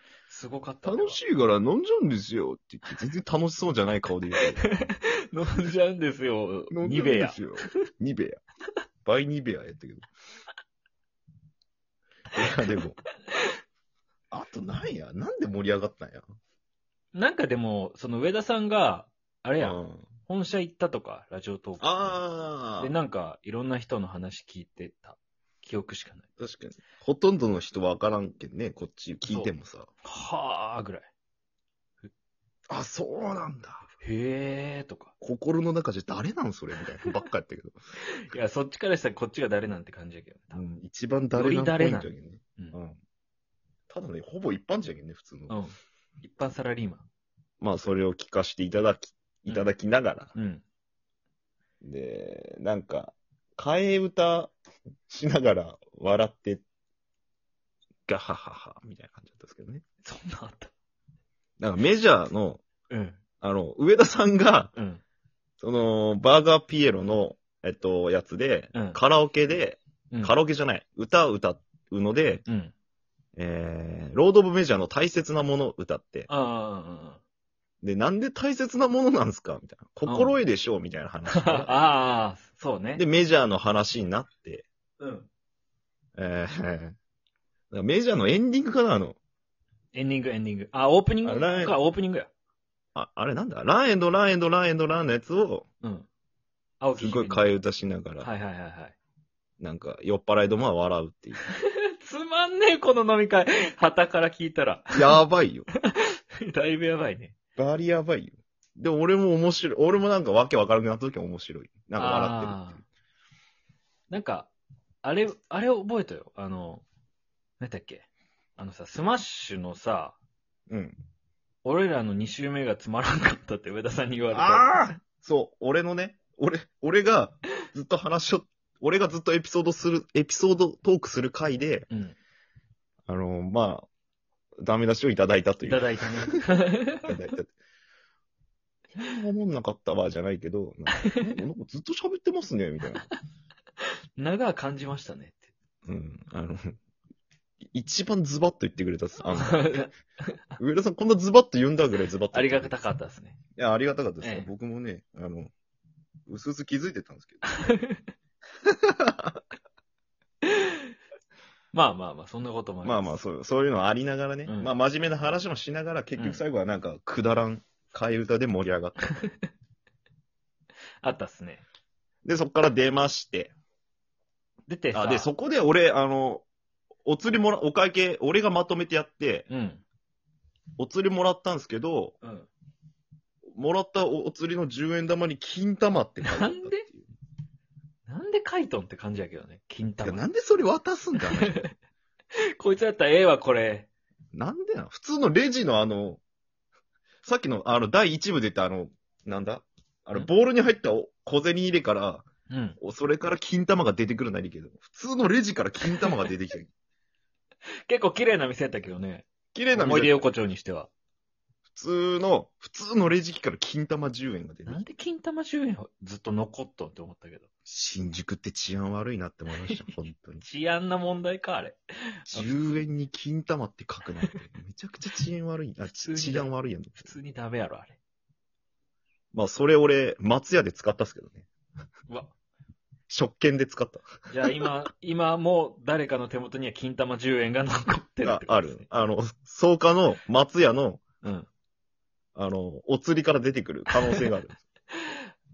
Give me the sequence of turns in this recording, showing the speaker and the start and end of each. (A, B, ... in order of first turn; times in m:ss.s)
0:00.3-0:01.2 A
0:00.8-0:04.6 B
0:04.7-0:07.5 A
0:06.7-0:08.4 B
0:09.0-0:10.1 B
0:12.3-0:13.0 B
0:14.3-0:16.2 B
0:17.1-0:22.2 A
0:19.6-0:20.1 B
0:21.8-0:22.9 B
0:22.8-0:26.3 A
0:26.4-0:29.9 B
0:29.2-0:29.5 A
0:30.0-0:31.1 A
0:32.7-0:33.8 B
0:34.0-0:35.1 A
0:35.2-0:37.8 B
0:38.1-0:40.6 A
0:40.5-0:43.0 B
0:41.3-0:42.8 A
0:43.9-0:45.6 B
0:45.5-0:47.0 A
0:47.6-0:50.3 B
0:50.3-0:50.6 A
0:51.8-0:54.5 B
0:55.1-0:56.6 B
0:58.1-0:59.8 B
1:00.0-1:00.7 A
1:01.6-1:02.6 B
1:02.9-1:03.2 A
1:03.4-1:04.7 B
1:04.7-1:05.0 A
1:05.6-1:12.4 B
1:08.7-1:09.0 A
1:10.1-1:10.4 A
1:12.4-1:12.7 A
1:13.4-1:16.3 B
1:16.3-1:17.2 A
1:17.8-1:21.8 B
1:20.1-1:20.4 A
1:21.3-1:23.0 A
1:23.0-1:24.6 B
1:25.0-1:25.3 A
1:26.2-1:27.0 B
1:27.7-1:29.2 B
1:29.9-1:32.3 A
1:31.2-1:31.8 B
1:32.9-1:35.6 B
1:35.8-1:36.1 A
1:36.8-1:37.5 A
1:37.0-1:38.3 B
1:38.2-1:38.9 A
1:39.6-1:41.4 B
1:41.6-1:44.9 A
1:44.9-1:45.7 B
1:45.9-1:47.4 A
1:47.6-1:52.8 B
1:52.0-1:52.8 A
1:54.1-1:54.5 A
1:55.0-1:56.8 A
1:57.6-2:00.2 A
2:00.7-2:01.0 B
2:01.6-2:04.9 A
2:04.3-2:11.9 B
2:11.9-2:12.2 A
2:13.1-2:13.9 B
2:14.6-2:16.4 B
2:15.6-2:17.2 A
2:17.0-2:17.5 B
2:18.9-2:23.1 B
2:24.2-2:25.5 A
2:25.8-2:26.8 B
2:27.7-2:29.9 B
2:29.3-2:29.9 A
2:30.6-2:32.7 B
2:32.3-2:33.4 A
2:33.6-2:35.5 B
2:34.2-2:34.5 A
2:36.3-2:37.4 B
2:37.5-2:38.0 A
2:38.6-2:39.4 B
2:40.4-2:40.8 A
2:41.7-2:43.2 A
2:42.8-2:49.0 B
2:44.4-2:44.7 A
2:51.0-2:51.6 A
2:52.2-2:53.5 B
2:54.7-2:55.3 A
2:54.9-2:56.4 B
2:57.0-2:59.5 B
2:59.5-2:59.8 A
3:00.8-3:02.2 B
3:02.2-3:02.5 A
3:03.5-3:07.1 B
3:06.3-3:06.8 A
3:08.1-3:10.2 A
3:10.0-3:11.7 B
3:11.2-3:11.7 A
3:12.6-3:13.9 A
3:14.3-3:16.2 B
3:17.2-3:22.3 B
3:22.5-3:22.8 A
3:22.8-3:26.7 B
3:27.9-3:30.9 A
3:29.5-3:30.3 B
3:31.7-3:34.8 B
3:34.6-3:37.5 A
3:37.7-3:40.4 B
3:40.4-3:42.8 A
3:42.3-3:47.1 B
3:45.9-3:48.0 A
3:49.3-3:51.5 B
3:53.1-3:54.1 B
3:54.3-3:58.9 A
3:58.2-4:01.0 B
4:01.2-4:01.5 A
4:02.4-4:04.6 B